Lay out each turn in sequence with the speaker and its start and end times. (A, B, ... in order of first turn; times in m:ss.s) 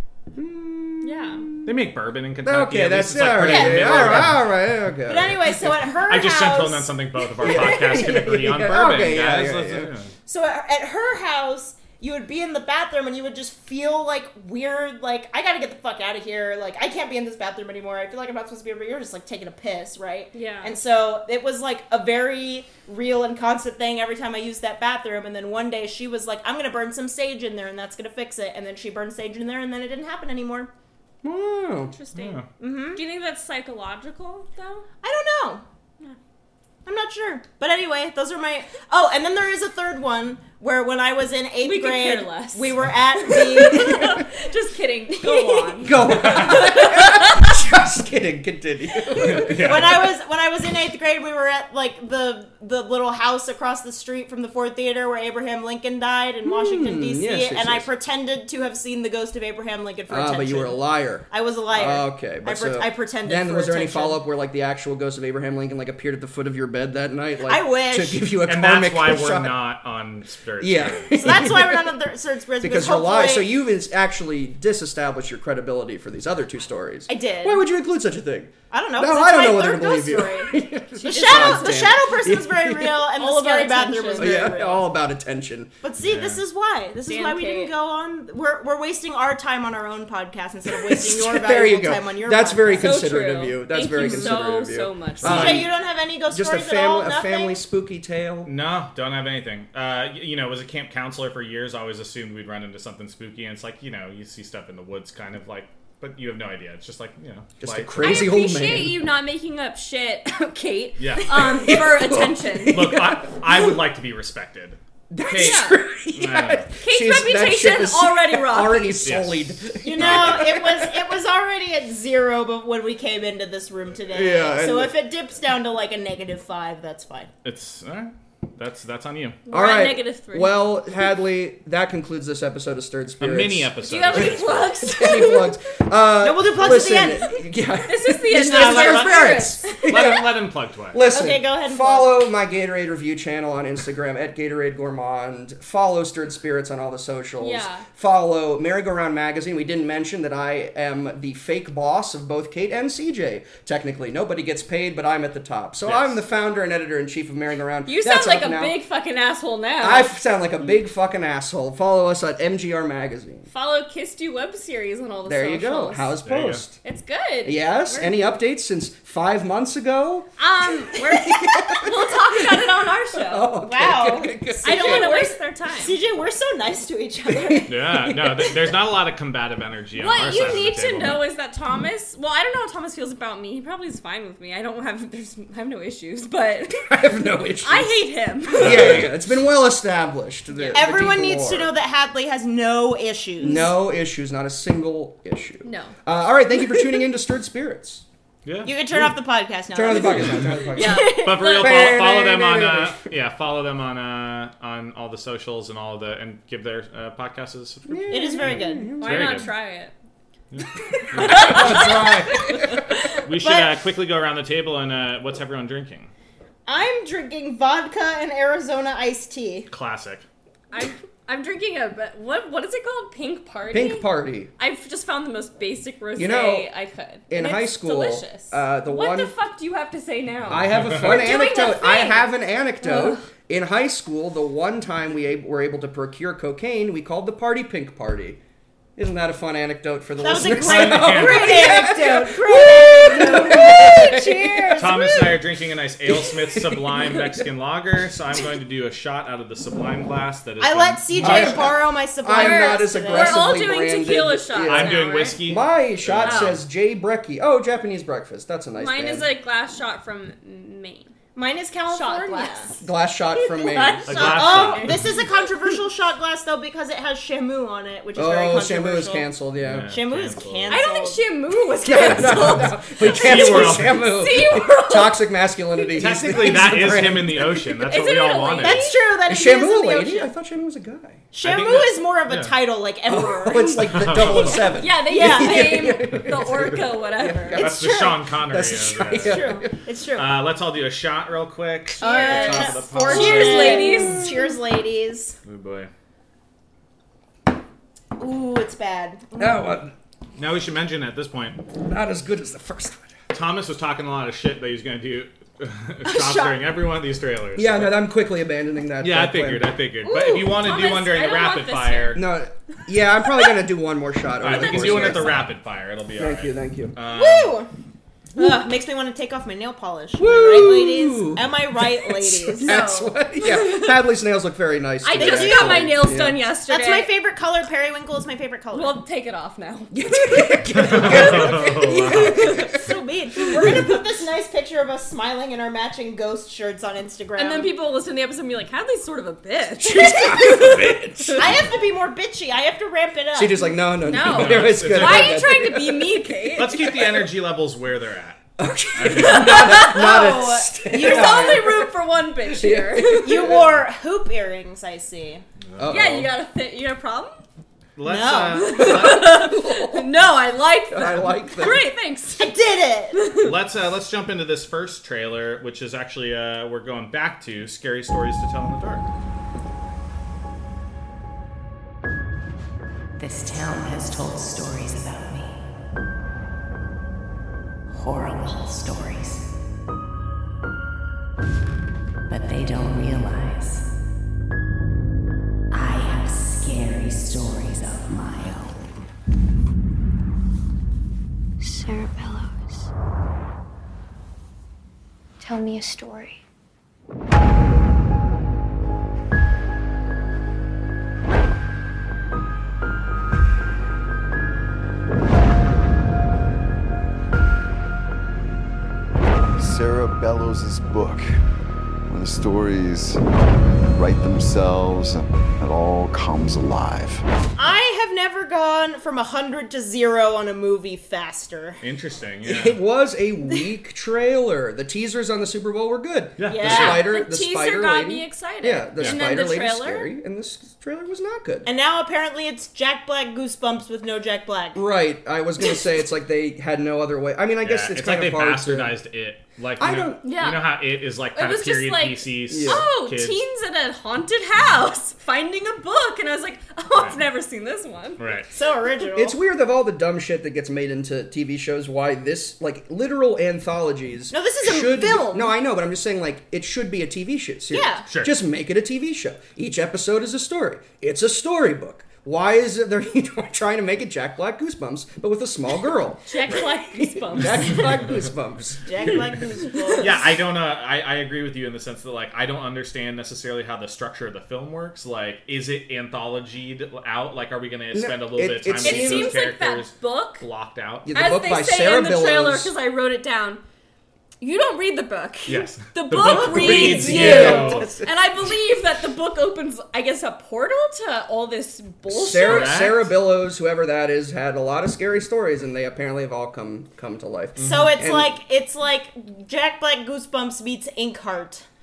0:00.3-0:01.8 A
0:01.0-0:01.4 B
0:01.6-0:04.5 C
0:02.4-0:05.8 A
0:03.3-0:04.3 D
0:05.0-0:06.9 D
0:06.1-0:10.1 C
0:07.4-0:09.9 A
0:07.4-0:07.8 D
0:10.2-0:30.7 D
0:20.3-0:20.7 B
0:31.2-0:31.9 A
0:31.9-0:34.8 B
0:32.1-0:32.4 C
0:32.6-0:33.0 D
0:35.0-0:35.6 D
0:36.8-0:44.2 D
0:41.6-0:47.4 B
0:43.8-0:44.1 A
0:45.2-0:49.8 A
0:46.1-0:46.7 C
0:49.2-0:50.1 C
0:49.4-1:04.2 D
0:56.4-0:57.9 A
1:00.1-1:09.6 A
1:07.4-1:08.3 D
1:08.4-1:11.2 C
1:10.6-1:11.9 A
1:11.2-1:13.5 D
1:12.6-1:23.0 A
1:17.1-1:17.6 D
1:18.7-1:24.8 D
1:21.0-1:21.9 B
1:23.2-1:24.5 B
1:24.1-1:25.7 A
1:25.8-1:33.1 D
1:26.0-1:26.4 C
1:27.0-1:27.7 B
1:30.7-1:38.5 A
1:32.7-1:35.6 B
1:34.0-1:34.4 D
1:35.2-1:35.6 C
1:35.2-1:37.6 D
1:38.4-1:48.3 C
1:47.6-1:49.0 A
1:48.0-1:52.8 B
1:51.0-1:51.5 C
1:51.3-1:53.8 A
1:52.7-1:56.7 C
1:55.1-2:01.0 A
1:55.3-1:55.8 B
1:56.8-1:59.0 B
1:59.0-2:00.5 C
1:59.8-2:07.3 D
2:04.1-2:04.9 A
2:07.4-2:09.4 C
2:09.5-2:10.8 B
2:09.5-2:20.4 A
2:13.2-2:14.7 C
2:13.8-2:15.6 B
2:16.2-2:17.3 D
2:17.8-2:20.1 B
2:18.5-2:19.3 D
2:19.8-2:21.0 C
2:20.9-2:38.8 A
2:21.0-2:22.1 D
2:27.4-2:27.8 B
2:35.8-2:36.2 C
2:37.8-2:40.1 B
2:39.8-2:43.5 A
2:43.5-2:46.1 B
2:45.2-2:46.8 A
2:46.2-2:46.6 C
2:46.8-2:48.2 B
2:47.4-2:55.2 A
2:50.4-2:53.9 B
2:53.6-2:57.7 D
2:54.6-2:56.0 B
2:57.3-2:58.8 A
2:57.7-3:01.2 C
3:00.0-3:06.9 B
3:06.8-3:11.7 A
3:07.6-3:09.0 B
3:08.6-3:09.1 C
3:10.5-3:10.8 B
3:10.7-3:13.7 D
3:13.4-3:18.0 A
3:15.6-3:15.9 B
3:18.4-3:18.7 C
3:18.6-3:21.3 D
3:19.7-3:23.1 A
3:20.7-3:22.0 B
3:21.2-3:28.5 C
3:27.9-3:29.5 A
3:28.1-3:29.0 D
3:29.0-3:29.9 B
3:29.0-3:29.5 C
3:30.5-3:32.1 C
3:31.1-3:32.8 A
3:31.2-3:33.1 B
3:33.2-3:36.1 C
3:33.4-3:33.7 D
3:36.6-3:39.7 D
3:39.7-3:40.2 C
3:40.7-3:52.3 B
3:43.7-3:44.5 A
3:46.2-3:46.7 A
3:47.3-3:49.3 A
3:50.5-3:58.4 A
3:50.5-3:51.1 C
3:52.8-3:53.2 B
3:59.0-4:05.0 A
4:00.2-4:05.4 D
4:00.3-4:01.9 C
4:04.8-4:11.7 C
4:06.0-4:07.4 A
4:10.6-4:13.7 D
4:11.1-4:19.3 A
4:12.3-4:15.4 B
4:14.6-4:16.6 C
4:16.2-4:16.6 B
4:18.7-4:21.1 B
4:21.3-4:22.7 D
4:21.9-4:25.2 B
4:22.8-4:24.3 A
4:24.0-4:25.1 C
4:24.1-4:29.3 D
4:28.1-4:29.9 A
4:29.6-4:30.8 C
4:29.9-4:31.2 D
4:30.7-4:35.2 B
4:31.8-4:37.9 A
4:33.0-4:34.0 C
4:36.0-4:38.8 C
4:37.9-4:39.0 B
4:38.6-4:40.3 D
4:39.2-4:41.2 A
4:41.3-4:45.9 D
4:41.4-4:42.5 C
4:43.1-4:49.8 A
4:43.9-4:44.6 C
4:44.7-4:47.6 B
4:47.6-4:48.1 D
4:47.6-4:49.4 C
4:49.2-4:50.4 D
4:50.2-4:53.8 C
4:52.0-4:55.4 D
4:52.0-4:54.3 B
4:53.6-4:54.5 A
4:55.4-4:55.9 C
4:58.2-4:59.7 D
4:59.4-4:59.9 A
5:00.4-5:01.6 C
5:01.8-5:03.1 A
5:03.3-5:08.0 C
5:06.0-5:06.6 D
5:07.6-5:09.8 A
5:09.0-5:12.2 C
5:10.0-5:12.2 B
5:12.1-5:15.5 A
5:14.4-5:17.6 C
5:14.5-5:15.4 B
5:16.2-5:17.0 A
5:17.1-5:17.7 B
5:18.4-5:22.8 D
5:20.2-5:26.4 A
5:22.6-5:24.0 B
5:25.0-5:27.1 B
5:25.1-5:26.1 D
5:26.7-5:29.0 D
5:28.7-5:31.6 B
5:29.9-5:32.9 A
5:30.8-5:32.4 C
5:32.1-5:32.6 B
5:32.6-5:37.7 D
5:33.4-5:34.0 A
5:37.4-5:41.4 B
5:39.8-5:41.6 A
5:41.4-5:43.8 D
5:43.3-5:46.2 A
5:44.0-5:46.9 B
5:44.2-5:45.7 C
5:46.6-5:48.4 C
5:48.6-5:51.9 A
5:49.0-5:49.7 C
5:49.1-5:53.5 B
5:49.7-5:51.7 D
5:52.4-5:53.7 A
5:53.2-5:55.4 D
5:55.7-5:56.3 C
5:55.8-5:56.3 A
5:55.9-5:57.4 B
5:58.0-5:59.4 C
5:58.0-5:59.0 D
5:58.6-6:02.5 B
5:58.9-6:00.1 A
6:00.9-6:01.8 A
6:02.4-6:03.2 D
6:03.2-6:03.5 B
6:03.4-6:09.1 C
6:13.2-6:15.6 E
6:17.9-6:19.5 E
6:22.3-6:23.8 E
6:25.7-6:28.8 E
6:31.6-6:32.9 F
6:35.4-6:36.4 F
6:49.6-6:51.2 G
6:52.1-6:53.2 G
6:53.9-6:57.2 G
6:57.6-7:01.8 D
7:01.8-7:02.8 C
7:02.4-7:11.7 A
7:06.4-7:07.0 C
7:06.5-7:07.0 D
7:06.8-7:10.1 B
7:09.0-7:09.2 C
7:11.6-7:14.8 D
7:14.7-7:19.0 A
7:17.6-7:23.4 C
7:19.8-7:20.2 A
7:20.2-7:20.7 B
7:21.3-7:28.2 B
7:22.5-7:22.8 A
7:28.2-7:28.5 C
7:28.5-7:29.4 D
7:29.1-7:49.2 A
7:34.3-7:35.5 D
7:37.7-7:38.0 D
7:38.1-7:38.3 C
7:46.3-7:48.0 B
7:48.8-7:50.2 D
7:50.0-8:01.1 C
7:57.9-7:59.4 A
7:58.8-8:00.4 B
8:01.0-8:02.7 A
8:01.1-8:03.6 B
8:04.4-8:12.8 B
8:05.4-8:07.9 C
8:06.2-8:08.1 A
8:12.1-8:18.4 A
8:12.3-8:13.1 C
8:17.6-8:17.9 C
8:17.6-8:21.6 D